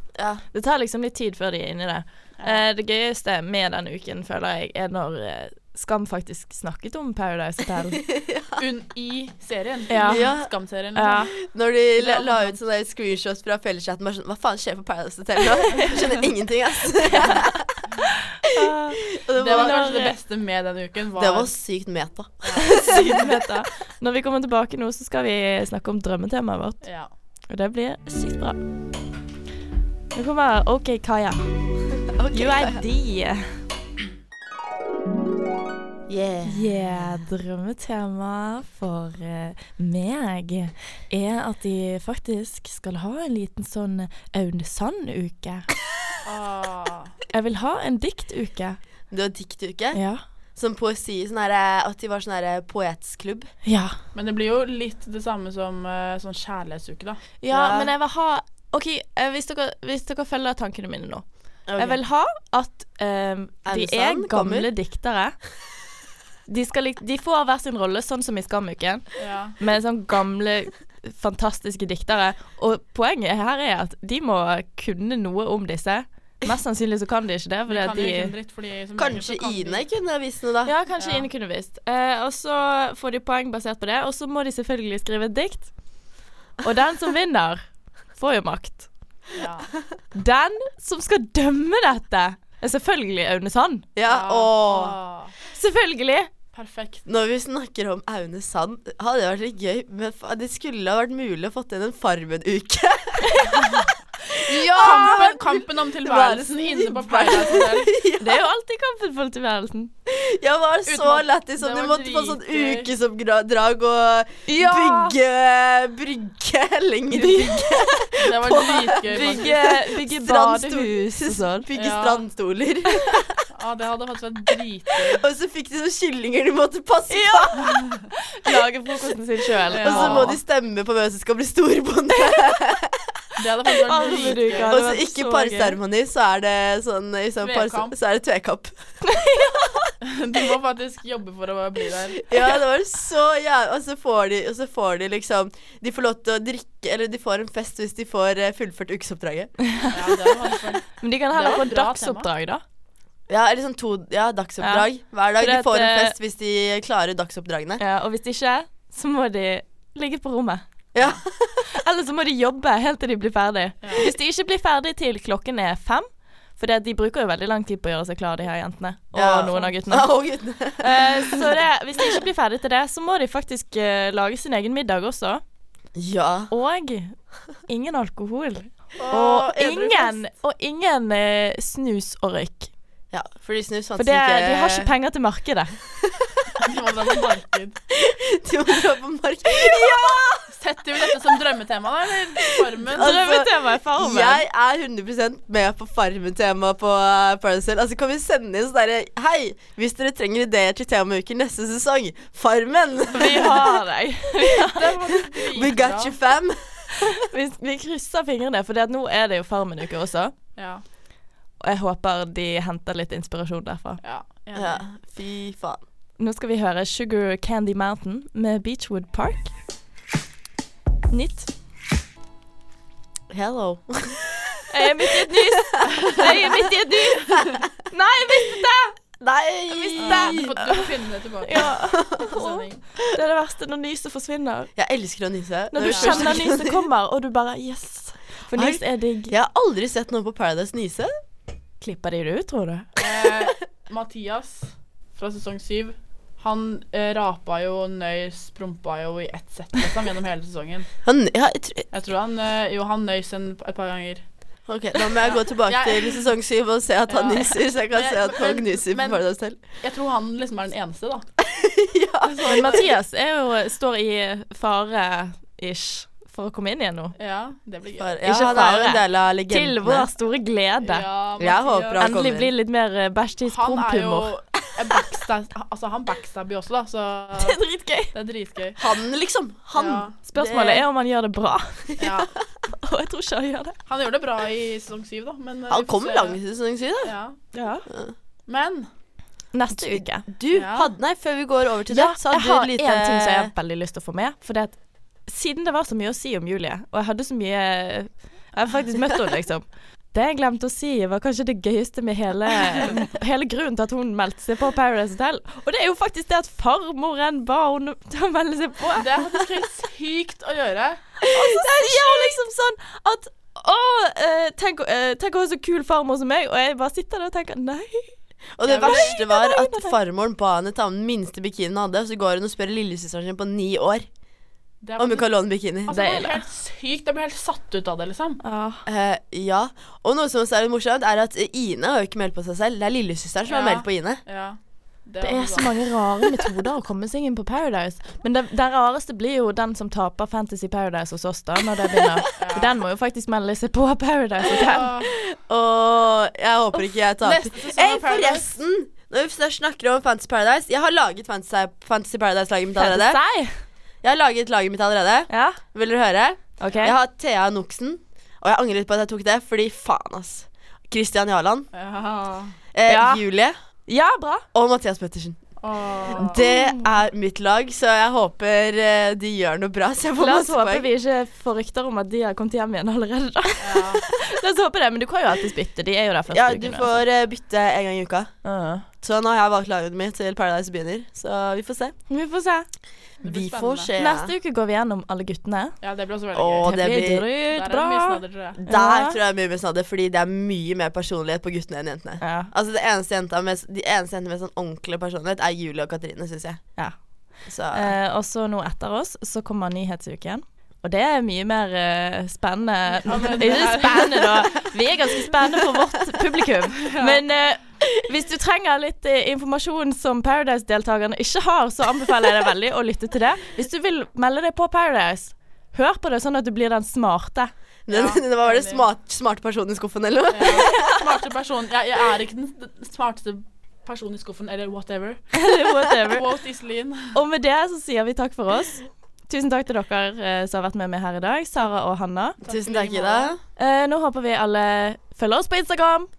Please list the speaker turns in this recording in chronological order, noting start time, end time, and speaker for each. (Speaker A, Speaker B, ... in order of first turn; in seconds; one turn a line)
Speaker A: 0.2-0.4
Speaker B: 0.5-8.0
Speaker C: 2.4-2.6
Speaker A: 8.0-8.6
Speaker C: 8.6-11.4
Speaker B: 9.9-10.2
Speaker A: 10.1-10.5
Speaker B: 11.0-11.3
Speaker A: 11.4-17.7
Speaker C: 12.0-12.6
Speaker B: 17.1-20.1
Speaker A: 18.6-19.9
Speaker C: 19.4-21.5
Speaker A: 21.2-23.1
Speaker C: 22.4-23.1
Speaker B: 22.6-26.8
Speaker C: 26.8-27.1
Speaker B: 27.5-28.6
Speaker B: 30.1-31.4
Speaker A: 32.1-32.8
Speaker B: 32.3-33.4
Speaker A: 36.1-36.7
Speaker B: 36.5-45.7
Speaker C: 46.2-47.1
Speaker B: 47.3-48.8
Speaker A: 49.1-50.0
Speaker B: 49.9-50.2
Speaker A: 50.6-53.5
Speaker B: 53.6-54.0
Speaker C: 54.1-57.2
Speaker B: 57.4-61.2
Speaker A: 57.5-57.9
Speaker A: 61.7-62.0
Speaker B: 61.8-65.4
Speaker A: 63.6-64.7
Speaker B: 66.5-69.1
Speaker C: 69.2-69.6
Speaker B: 69.6-78.3
Speaker C: 77.7-79.8
Speaker A: 79.0-80.7
Speaker B: 80.7-85.7
Speaker C: 81.0-81.3
Speaker B: 86.6-87.6
Speaker B: 88.2-88.9
Speaker C: 89.3-89.7
Speaker B: 90.2-93.8
Speaker A: 94.0-95.0
Speaker C: 94.1-95.3
Speaker B: 95.5-96.3
Speaker C: 96.5-97.0
Speaker A: 97.1-108.5
Speaker B: 104.6-105.1
Speaker C: 104.8-108.0
Speaker B: 108.2-109.9
Speaker A: 110.1-123.3
Speaker C: 110.9-112.9
Speaker B: 114.5-115.2
Speaker B: 117.1-117.6
Speaker C: 118.2-119.5
Speaker B: 119.1-121.7
Speaker C: 121.8-122.2
Speaker C: 123.5-125.2
Speaker A: 125.1-127.6
Speaker B: 127.1-130.4
Speaker C: 127.6-128.0
Speaker C: 129.7-130.4
Speaker A: 129.8-133.1
Speaker C: 133.4-134.8
Speaker B: 133.8-135.8
Speaker A: 134.6-138.7
Speaker C: 137.4-137.9
Speaker B: 139.0-139.9
Speaker C: 140.0-142.2
Speaker A: 142.3-149.5
Speaker C: 149.9-152.3
Speaker B: 151.0-152.6
Speaker A: 153.3-157.8
Speaker B: 154.6-156.2
Speaker B: 157.8-160.6
Speaker A: 160.9-161.6
Speaker B: 161.7-166.1
Speaker C: 163.8-164.1
Speaker B: 166.6-170.1
Speaker A: 169.1-171.6
Speaker B: 170.8-175.4
Speaker A: 176.0-176.5
Speaker B: 176.5-182.7
Speaker A: 179.0-180.0
Speaker C: 179.0-180.2
Speaker A: 183.1-184.9
Speaker B: 184.0-185.8
Speaker A: 186.0-186.7
Speaker C: 186.6-187.8
Speaker A: 187.9-190.5
Speaker C: 190.5-193.2
Speaker A: 192.6-203.8
Speaker B: 193.0-194.4
Speaker B: 203.1-204.8
Speaker C: 204.7-206.2
Speaker A: 205.1-206.6
Speaker B: 207.2-210.4
Speaker C: 210.6-210.8
Speaker B: 211.6-214.0
Speaker C: 214.0-214.8
Speaker A: 214.6-215.8
Speaker B: 216.2-219.5
Speaker B: 221.1-221.5
Speaker A: 223.3-224.6
Speaker B: 224.7-229.0
Speaker A: 225.2-226.5
Speaker A: 229.2-230.6
Speaker B: 229.7-230.8
Speaker C: 230.0-232.8
Speaker B: 231.4-234.7
Speaker A: 231.9-232.2
Speaker A: 234.8-236.8
Speaker B: 235.7-239.3
Speaker C: 235.8-236.4
Speaker A: 238.5-241.1
Speaker B: 241.8-242.9
Speaker C: 243.0-250.9
Speaker A: 251.1-251.9
Speaker C: 251.9-254.2
Speaker A: 254.7-259.6
Speaker C: 255.2-256.2
Speaker C: 257.1-259.2
Speaker C: 259.8-261.3
Speaker A: 261.4-262.8
Speaker C: 262.2-262.9
Speaker B: 262.5-267.1
Speaker C: 267.2-268.1
Speaker A: 268.0-270.1
Speaker B: 268.2-271.1
Speaker C: 270.8-272.0
Speaker A: 271.4-272.5
Speaker B: 272.0-274.3
Speaker C: 273.5-277.6
Speaker B: 277.4-278.1
Speaker C: 278.1-278.8
Speaker A: 278.8-280.9
Speaker C: 279.8-280.1
Speaker B: 280.3-281.9
Speaker A: 281.9-282.3
Speaker C: 282.0-282.3
Speaker B: 282.7-283.8
Speaker C: 283.9-286.4
Speaker A: 285.7-287.1
Speaker C: 287.0-287.4
Speaker B: 287.5-287.9
Speaker A: 287.9-288.1
Speaker C: 288.5-288.9
Speaker B: 289.5-290.2
Speaker A: 289.7-293.5
Speaker C: 290.5-290.9
Speaker B: 291.9-309.1
Speaker C: 308.9-311.0
Speaker B: 311.3-318.2
Speaker A: 311.3-312.4
Speaker A: 318.6-324.1
Speaker C: 318.7-319.1
Speaker B: 318.7-319.9
Speaker C: 324.8-325.3
Speaker A: 325.0-326.0
Speaker C: 325.9-328.4
Speaker B: 325.9-326.4
Speaker B: 328.4-328.9
Speaker A: 328.9-334.2
Speaker C: 333.5-335.8
Speaker B: 335.2-344.9
Speaker C: 342.4-342.7
Speaker C: 344.5-345.1
Speaker A: 345.1-353.2
Speaker C: 347.2-348.5
Speaker B: 352.8-353.5
Speaker A: 354.0-361.7
Speaker B: 355.3-355.6
Speaker B: 356.6-357.0
Speaker C: 361.7-362.6
Speaker A: 362.7-363.6
Speaker B: 362.9-363.2
Speaker B: 363.9-364.4
Speaker A: 364.5-365.4
Speaker C: 365.6-366.3
Speaker A: 366.1-370.9
Speaker B: 366.3-366.9
Speaker B: 370.2-376.9
Speaker C: 373.6-374.0
Speaker A: 376.3-378.3
Speaker B: 378.4-378.9
Speaker A: 379.0-381.9
Speaker B: 382.1-382.7
Speaker C: 383.2-383.9
Speaker A: 383.2-384.3
Speaker B: 384.0-385.8
Speaker C: 385.8-386.7
Speaker A: 386.3-387.3
Speaker B: 386.6-389.2
Speaker C: 387.5-388.6
Speaker A: 388.6-396.7
Speaker B: 392.2-392.5
Speaker A: 397.5-397.9
Speaker B: 397.7-417.5
Speaker C: 403.0-404.5
Speaker A: 403.3-404.0
Speaker C: 406.8-407.2
Speaker A: 417.9-420.8
Speaker C: 417.9-418.9
Speaker C: 420.3-425.4
Speaker B: 420.7-421.0
Speaker B: 425.3-426.3
Speaker C: 426.1-427.2
Speaker B: 427.1-432.4
Speaker C: 432.4-433.3
Speaker A: 432.5-433.4
Speaker B: 433.6-436.1